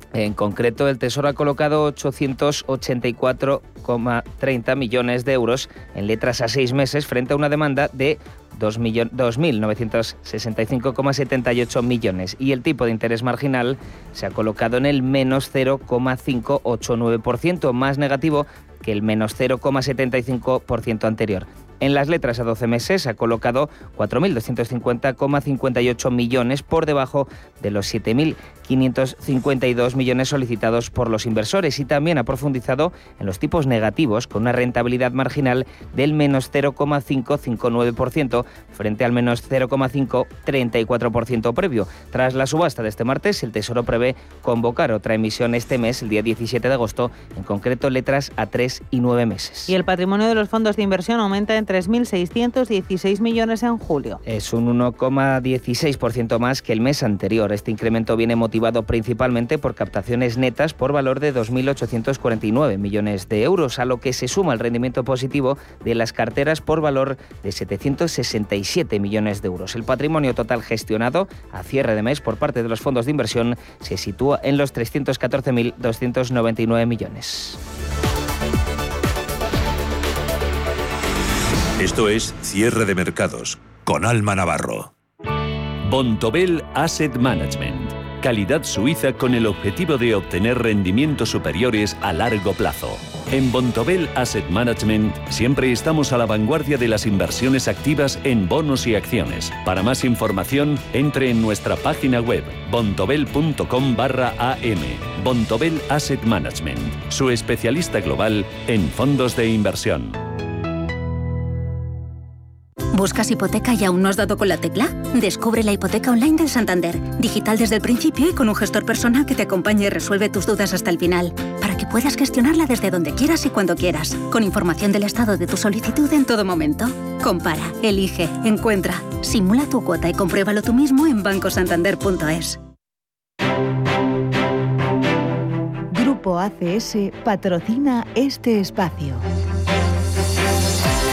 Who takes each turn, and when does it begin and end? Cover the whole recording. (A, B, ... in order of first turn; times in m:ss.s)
0:00.1-0:49.7 A
0:49.7-0:54.2 B
0:54.2-1:17.6 A
1:21.8-1:24.9 C
1:25.8-1:50.2 D
1:52.9-2:12.6 E
2:15.9-2:19.2 F